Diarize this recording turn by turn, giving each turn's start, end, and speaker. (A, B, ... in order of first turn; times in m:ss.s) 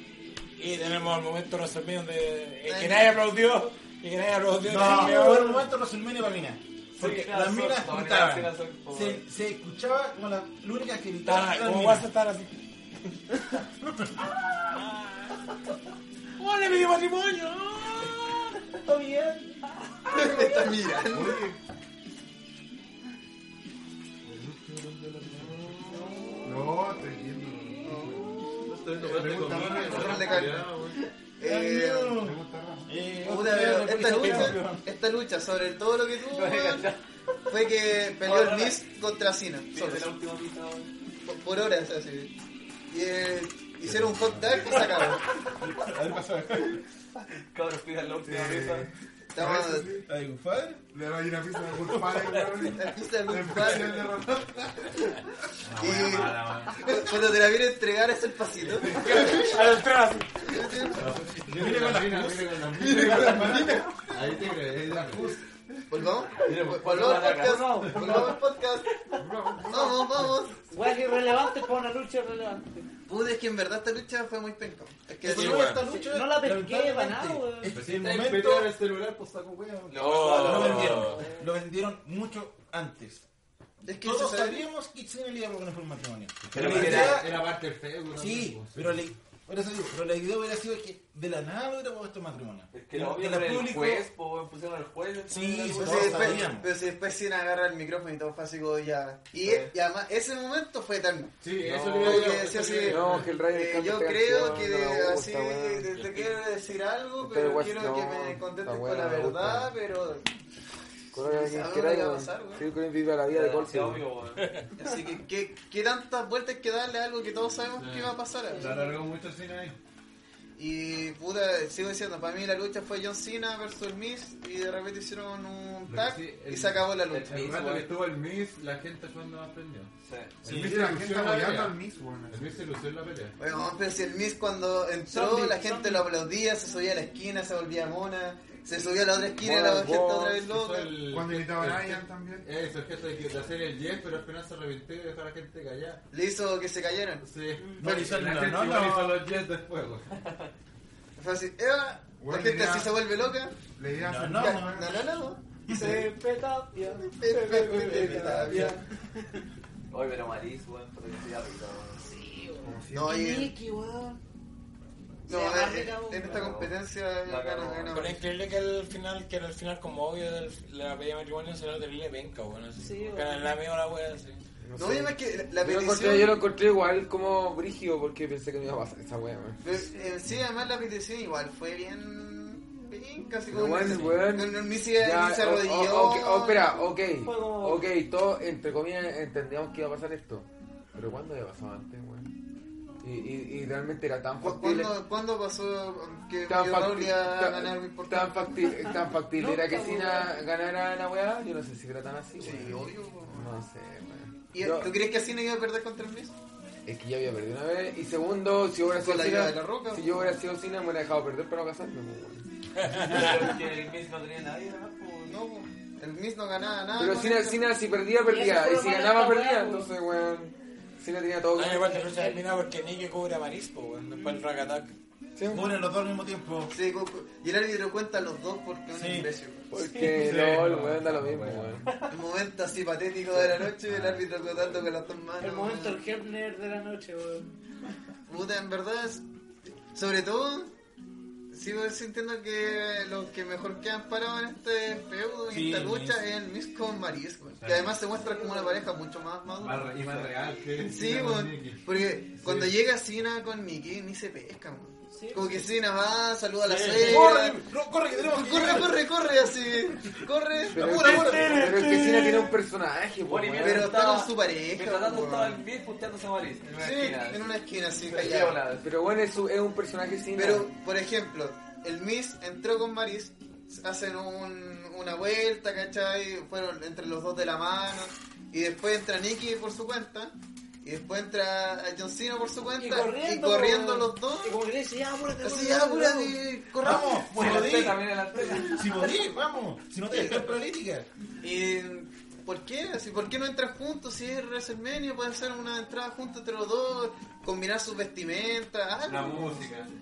0:00.6-0:05.6 A
0:02.7-0:03.2 B
0:04.6-0:12.1 C
0:07.0-0:09.2 D
0:11.2-0:12.5 A
0:16.4-0:18.3 A
0:18.8-0:20.7 E
0:20.1-0:21.4 B
0:21.1-0:21.6 F
0:24.3-0:26.1 G
0:25.8-0:26.6 E
0:26.4-0:28.4 F
0:27.8-0:30.7 B
0:28.7-0:31.0 G
0:29.0-0:30.6 F
0:31.4-0:32.2 B
0:31.4-0:34.8 C
0:32.2-0:32.9 F
0:33.2-0:36.9 B
0:34.2-0:34.6 A
0:36.3-0:37.5 D
0:37.5-0:40.1 B
0:38.2-0:38.8 D
0:39.7-0:40.9 D
0:41.2-0:42.3 B
0:42.9-0:45.2 B
0:43.8-0:44.8 G
0:45.6-0:46.8 C
0:47.5-0:48.9 D
0:48.2-0:50.1 F
0:49.3-0:49.9 B
0:50.1-0:50.8 C
0:50.9-0:55.1 F
0:51.9-0:52.2 C
0:52.6-0:54.1 B
0:55.6-0:56.9 G
0:55.8-0:59.6 B
0:58.6-0:59.4 G
0:59.0-1:00.3 A
1:00.4-1:01.1 B
1:00.9-1:05.3 G
1:01.5-1:02.6 C
1:02.8-1:04.3 F
1:02.9-1:03.9 B
1:04.8-1:05.4 C
1:05.9-1:08.9 B
1:06.4-1:07.7 D
1:07.2-1:08.4 E
1:07.9-1:08.2 G
1:09.2-1:10.4 F
1:09.7-1:10.6 B
1:10.7-1:12.9 E
1:13.1-1:15.7 B
1:15.2-1:18.7 C
1:15.2-1:15.8 A
1:15.8-1:17.8 E
1:17.7-1:21.1 G
1:19.9-1:21.1 D
1:20.0-1:21.2 A
1:20.4-1:23.3 C
1:21.1-1:21.4 E
1:23.8-1:24.6 B
1:23.9-1:27.4 C
1:26.5-1:29.0 G
1:26.5-1:27.3 D
1:28.1-1:34.1 C
1:32.7-1:36.4 D
1:35.3-1:36.7 C
1:35.8-1:41.4 B
1:39.4-1:39.7 D
1:41.4-1:43.3 G
1:41.6-1:45.9 H
1:42.0-1:50.3 B
1:46.0-1:46.3 A
1:47.2-1:49.7 H
1:51.1-1:54.1 H
1:51.1-1:52.6 B
1:53.3-1:54.5 D
1:54.4-1:54.6 A
1:54.8-1:58.8 B
1:57.8-1:59.8 G
1:58.4-1:59.1 E
2:00.6-2:07.6 B
2:05.9-2:09.9 G
2:07.3-2:07.8 H
2:10.0-2:10.4 D
2:10.4-2:13.4 G
2:10.5-2:10.8 C
2:10.5-2:12.6 F
2:13.4-2:20.9 B
2:15.1-2:16.1 E
2:19.4-2:20.4 H
2:19.9-2:26.0 G
2:21.0-2:22.5 F
2:26.1-2:27.2 B
2:27.2-2:30.1 G
2:27.6-2:27.9 E
2:27.8-2:29.2 C
2:27.8-2:28.1 B
2:30.1-2:30.5 D
2:31.2-2:33.6 B
2:32.2-2:33.0 F
2:33.7-2:35.0 F
2:34.0-2:34.9 C
2:34.3-2:36.1 B
2:35.7-2:36.0 C
2:35.7-2:39.4 E
2:37.0-2:38.8 B
2:37.7-2:38.8 C
2:39.9-2:42.0 D
2:42.0-2:44.2 E
2:42.6-2:43.2 F
2:42.9-2:43.5 B
2:45.3-2:46.6 E
2:45.3-2:48.2 B
2:46.3-2:46.7 D
2:47.3-2:48.2 D
2:47.9-2:54.4 A
2:52.8-2:53.6 E
2:54.6-2:59.6 H
2:54.8-2:56.4 B
2:59.6-3:06.9 B
2:59.7-3:00.1 E
3:03.5-3:12.3 H
3:07.2-3:07.9 E
3:13.0-3:15.0 H
3:14.4-3:18.8 B
3:16.5-3:24.9 H
3:19.4-3:20.3 E
3:22.4-3:23.5 B
3:24.5-3:26.3 B
3:26.9-3:32.5 H
3:28.9-3:30.4 B
3:32.8-3:33.4 A
3:32.9-3:35.4 D
3:35.3-3:37.8 B
3:37.0-3:42.1 H
3:38.2-3:39.9 E
3:41.5-3:44.9 A
3:41.9-3:42.4 E
3:45.4-3:45.8 H
3:45.5-3:46.7 C
3:46.7-3:49.7 B
3:48.9-3:49.3 C
3:49.7-3:51.9 H
3:50.0-3:51.8 G
3:52.1-3:56.0 B
3:53.9-3:54.7 G
3:55.4-3:57.5 E
3:58.3-3:59.2 B
3:59.9-4:00.7 B
4:01.5-4:17.6 B
4:05.5-4:06.2 C
4:07.6-4:08.0 G
4:08.1-4:08.9 E
4:09.6-4:11.8 G
4:12.4-4:12.7 G
4:15.1-4:15.6 E
4:16.7-4:17.2 A
4:16.8-4:19.0 C
4:18.2-4:21.6 B
4:20.7-4:23.9 H
4:20.9-4:22.6 A
4:23.2-4:27.5 D
4:23.6-4:25.6 B
4:26.8-4:28.6 B
4:28.1-4:28.9 D
4:28.8-4:30.7 H
4:30.4-4:44.6 B
4:42.8-4:46.4 E
4:45.4-4:47.7 B
4:46.8-4:51.1 C
4:47.2-4:49.0 D
4:50.1-4:50.5 B
4:51.4-4:59.7 B
4:59.0-4:59.9 G